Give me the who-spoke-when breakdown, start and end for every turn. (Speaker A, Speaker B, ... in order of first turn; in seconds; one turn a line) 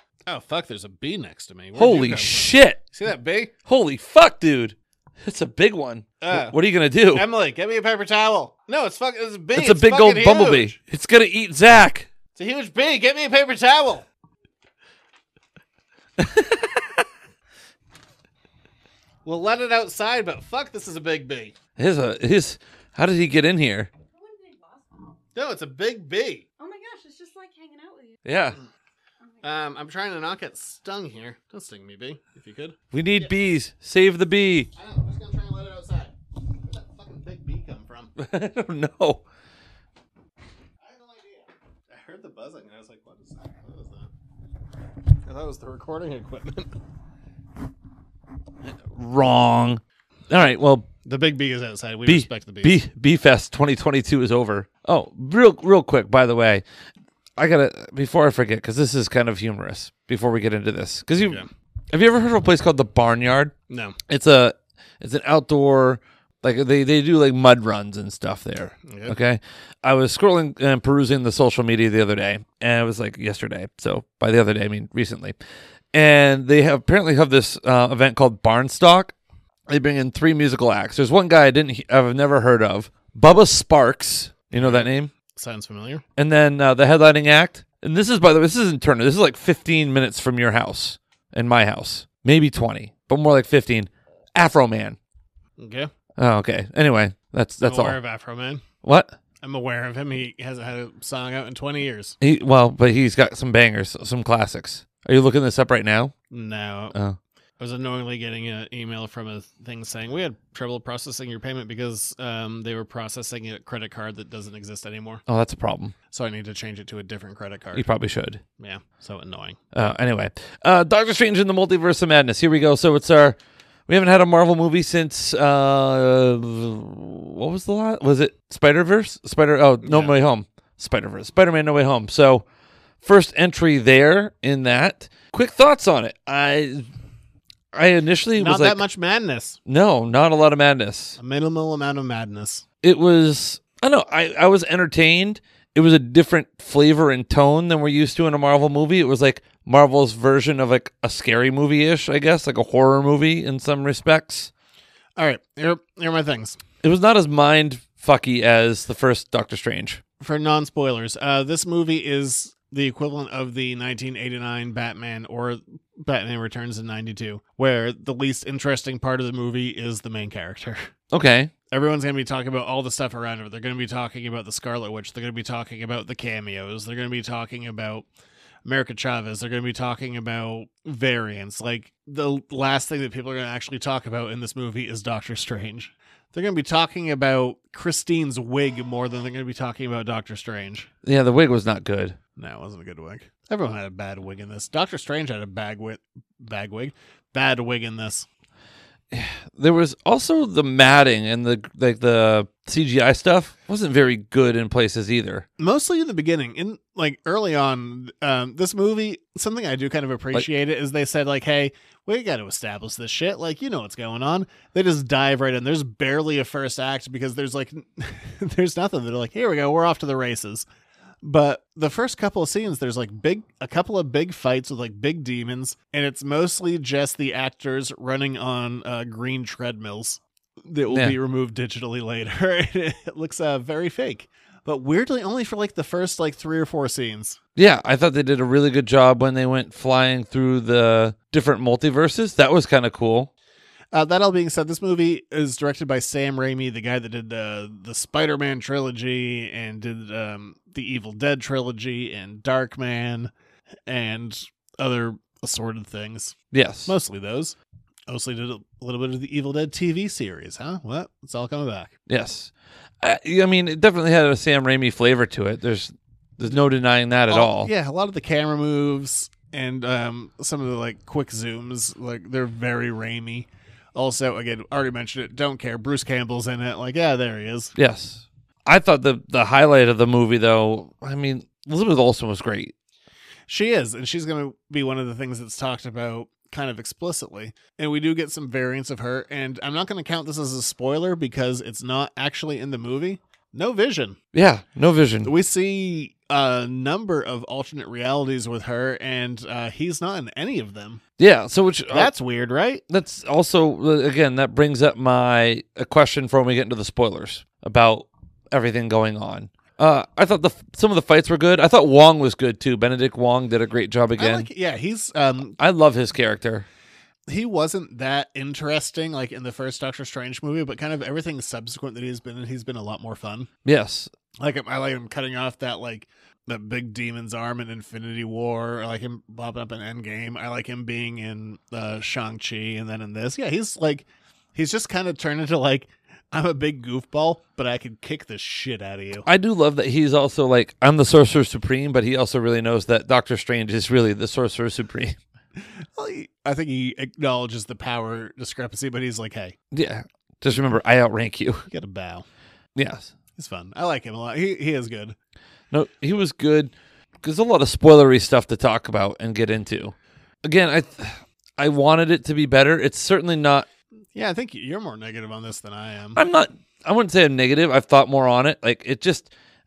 Speaker A: 0.3-3.5
Speaker B: 1.8-2.8
Speaker B: 3.7-7.3
Speaker A: 6.2-6.6
Speaker A: 7.1-10.8
Speaker B: 9.5-12.1
Speaker A: 12.3-14.1
Speaker B: 16.2-17.0
Speaker A: 19.2-21.6
Speaker B: 21.8-23.9
Speaker C: 24.1-25.1
Speaker A: 25.3-26.5
Speaker C: 26.6-28.3
Speaker B: 28.2-28.6
Speaker C: 29.2-29.6
Speaker A: 29.4-33.3
Speaker B: 32.9-34.7
Speaker A: 34.8-38.1
Speaker B: 38.2-39.2
Speaker A: 40.8-44.1
Speaker A: 45.2-46.7
Speaker B: 48.9-50.9
Speaker A: 51.0-52.8
Speaker B: 52.1-56.6
Speaker B: 57.4-63.5
Speaker A: 61.2-61.5
Speaker A: 63.7-64.0
Speaker B: 64.1-75.4
Speaker A: 68.9-69.2
Speaker B: 75.9-79.1
Speaker B: 79.7-85.1
Speaker A: 84.5-86.0
Speaker B: 86.2-95.0
Speaker A: 95.6-95.9
Speaker B: 96.2-98.0
Speaker A: 97.6-98.6
Speaker B: 98.8-99.2
Speaker A: 99.4-102.2
Speaker B: 102.2-106.1
Speaker A: 106.3-107.0
Speaker B: 106.9-107.2
Speaker A: 107.6-115.2
Speaker B: 115.3-116.0
Speaker A: 116.1-117.9
Speaker B: 117.7-118.4
Speaker A: 118.6-119.6
Speaker B: 119.7-132.4
Speaker A: 129.8-130.2
Speaker B: 133.0-136.9
Speaker B: 137.7-138.8
Speaker A: 138.4-139.6
Speaker B: 139.7-141.2
Speaker A: 141.2-142.6
Speaker B: 142.8-154.5
Speaker A: 155.2-156.6
Speaker B: 156.8-160.0
Speaker A: 160.2-170.9
Speaker B: 171.1-171.5
Speaker A: 171.7-178.1
Speaker A: 178.7-190.9
Speaker B: 191.0-192.2
Speaker A: 192.4-198.3
Speaker B: 199.1-205.5
Speaker A: 205.6-220.7
Speaker A: 221.2-237.4
Speaker B: 230.9-231.2
Speaker B: 237.6-243.3
Speaker A: 243.9-253.3
Speaker A: 253.9-257.6
Speaker B: 256.5-256.9
Speaker A: 258.1-261.9
Speaker B: 262.1-267.7
Speaker A: 267.3-277.7
Speaker B: 277.8-282.7
Speaker A: 283.5-294.2
Speaker B: 294.3-295.3
Speaker A: 295.2-301.0
Speaker B: 301.2-302.1
Speaker A: 301.9-302.8
Speaker B: 302.9-314.5
Speaker A: 314.2-315.6
Speaker B: 315.6-316.7
Speaker A: 317.3-323.5
Speaker B: 323.6-324.1
Speaker A: 324.4-339.3
Speaker B: 339.2-345.2
Speaker A: 346.0-349.6
Speaker B: 349.7-351.7
Speaker A: 351.7-352.2
Speaker B: 352.8-353.1
Speaker A: 353.4-355.2
Speaker B: 355.7-363.7
Speaker A: 364.1-366.2
Speaker B: 366.2-369.3